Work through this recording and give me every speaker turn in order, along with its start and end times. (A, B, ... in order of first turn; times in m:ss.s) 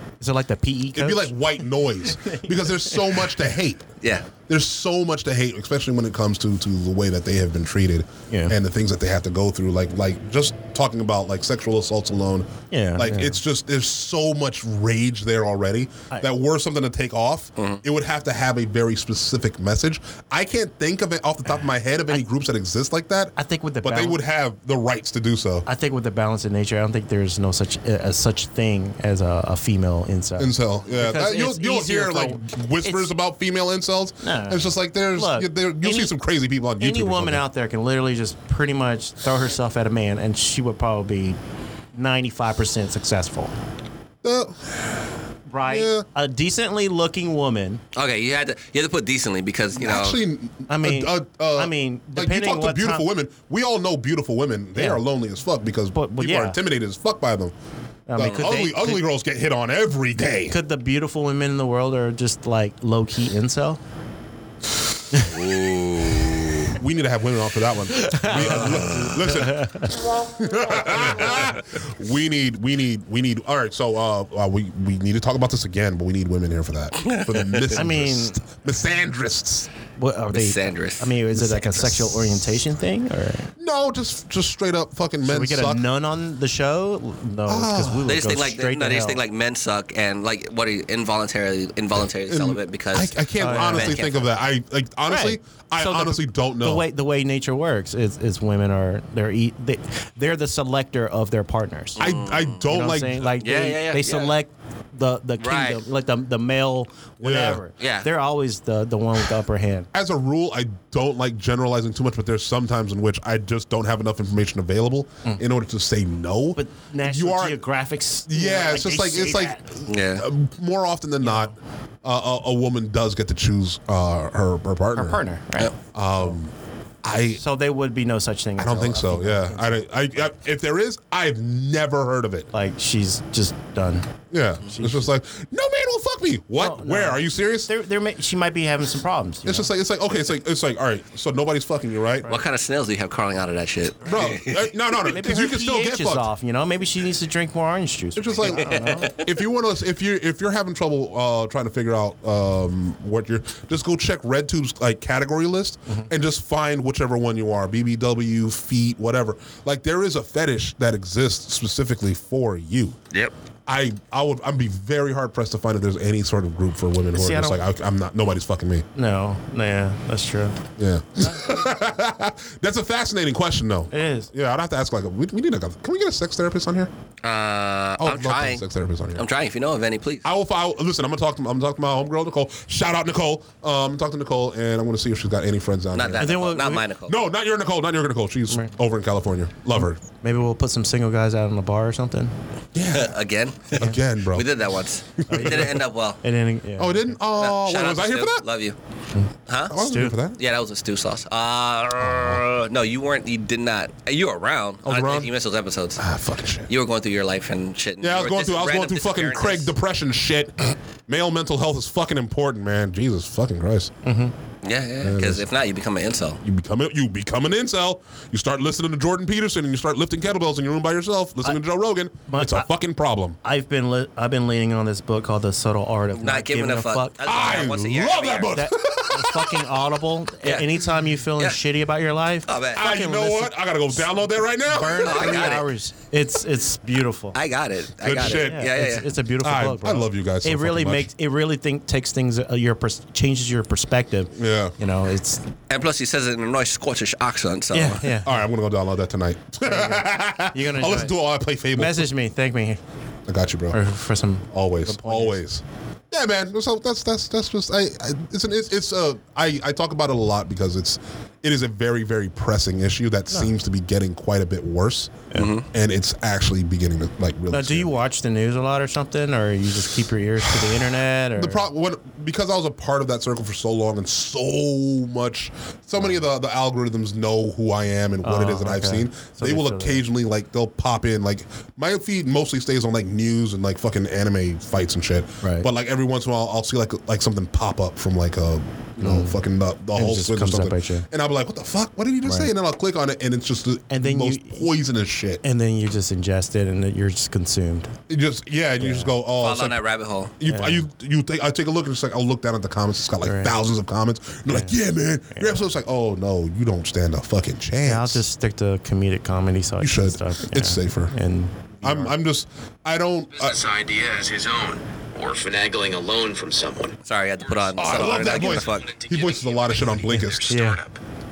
0:00.2-0:01.3 A
0:00.9-0:03.9 B
0:04.0-0:04.3 C
0:04.5-0:25.6 B
0:08.3-0:08.6 A
0:12.7-0:13.4 A
0:23.4-0:24.2 A
0:25.7-0:33.1 A
0:30.4-0:37.4 B
0:34.2-0:36.1 A
0:36.8-0:41.4 A
0:41.9-0:43.5 A
0:44.2-0:45.1 B
0:45.5-0:47.8 A
0:45.6-0:46.1 B
0:47.9-0:50.2 C
0:49.8-0:57.5 B
0:50.7-0:53.0 A
0:54.8-0:55.0 A
0:55.9-0:56.6 A
0:58.1-0:59.0 A
0:58.2-1:00.6 B
1:00.5-1:03.8 A
1:05.3-1:06.7 C
1:06.6-1:19.7 B
1:07.9-1:09.9 A
1:08.6-1:09.1 C
1:11.0-1:11.3 A
1:17.0-1:17.7 C
1:17.8-1:18.4 A
1:20.0-1:23.5 A
1:20.3-1:21.1 C
1:21.4-1:22.5 B
1:23.6-1:25.9 B
1:25.2-1:29.2 A
1:27.5-1:28.1 B
1:28.1-1:34.3 C
1:32.3-1:36.8 B
1:33.4-1:34.0 A
1:35.1-1:42.1 A
1:42.0-1:42.6 C
1:42.0-1:43.4 B
1:42.7-1:49.9 A
1:43.4-1:44.3 C
1:45.4-1:45.8 C
1:47.2-1:47.6 B
1:47.8-1:48.1 C
1:49.9-1:57.6 B
1:56.6-1:59.6 A
1:58.3-2:05.2 B
1:59.9-2:00.3 C
2:01.2-2:01.5 A
2:04.9-2:05.7 A
2:05.9-2:07.4 B
2:07.4-2:09.8 A
2:08.6-2:12.5 B
2:12.5-2:14.1 A
2:14.3-2:17.7 B
2:14.7-2:15.0 A
2:16.6-2:19.7 A
2:19.4-2:22.3 B
2:22.3-2:24.6 C
2:24.0-2:26.3 B
2:25.0-2:29.1 A
2:28.1-2:43.0 B
2:28.4-2:29.3 C
2:43.7-2:48.9 B
2:47.1-2:47.6 A
2:49.0-2:50.6 A
2:50.8-2:56.9 B
2:53.9-2:54.3 A
2:57.2-3:00.2 C
2:58.0-2:59.3 B
3:00.2-3:06.4 B
3:05.9-3:07.1 C
3:06.2-3:06.9 A
3:07.1-3:10.0 B
3:10.2-3:12.3 A
3:12.7-3:13.1 B
3:12.9-3:16.2 C
3:13.7-3:14.6 B
3:15.3-3:17.2 A
3:15.3-3:15.7 B
3:16.8-3:18.4 B
3:17.4-3:18.8 C
3:19.2-3:20.2 A
3:19.5-3:19.8 C
3:19.7-3:20.4 B
3:20.4-3:26.0 C
3:22.0-3:22.4 B
3:24.8-3:25.3 B
3:26.0-3:26.7 B
3:26.7-3:29.7 C
3:28.0-3:33.9 B
3:34.0-3:34.3 A
3:34.6-3:36.4 C
3:35.0-3:35.4 B
3:36.4-3:43.4 B
3:42.3-3:42.7 A
3:43.4-3:47.4 A
3:46.1-3:48.6 C
3:47.2-3:49.8 B
3:48.6-3:54.1 A
3:50.4-3:50.8 C
3:52.5-3:52.9 C
3:52.7-3:55.4 B
3:54.7-3:57.4 A
3:55.0-3:55.7 C
3:57.3-3:59.1 C
3:58.0-3:58.7 B
3:58.2-4:05.5 A
3:59.4-4:01.1 B
4:04.4-4:04.7 B
4:05.7-4:08.1 C
4:07.7-4:08.4 A
4:08.2-4:12.1 B
4:09.6-4:11.1 A
4:11.8-4:12.8 A
4:13.3-4:13.8 B
4:13.7-4:15.4 A
4:14.5-4:28.0 B
4:25.3-4:25.7 C
4:27.5-4:31.6 A
4:30.4-4:55.4 B
4:38.2-4:40.0 A
4:45.4-4:45.7 A
4:49.0-4:49.4 A
4:49.9-4:51.1 A
4:52.2-4:52.5 A
4:53.9-4:54.7 A
4:55.4-4:57.9 A
4:58.1-4:59.8 B
4:58.8-4:59.1 A
4:59.4-5:00.3 C
5:00.4-5:08.2 B
5:00.4-5:00.8 A
5:03.2-5:03.5 A
5:04.5-5:04.8 A
5:05.4-5:05.6 A
5:07.8-5:12.2 A
5:09.8-5:11.1 B
5:11.8-5:13.6 B
5:13.4-5:21.0 D
5:17.1-5:19.0 C
5:17.8-5:20.5 B
5:20.1-5:20.8 A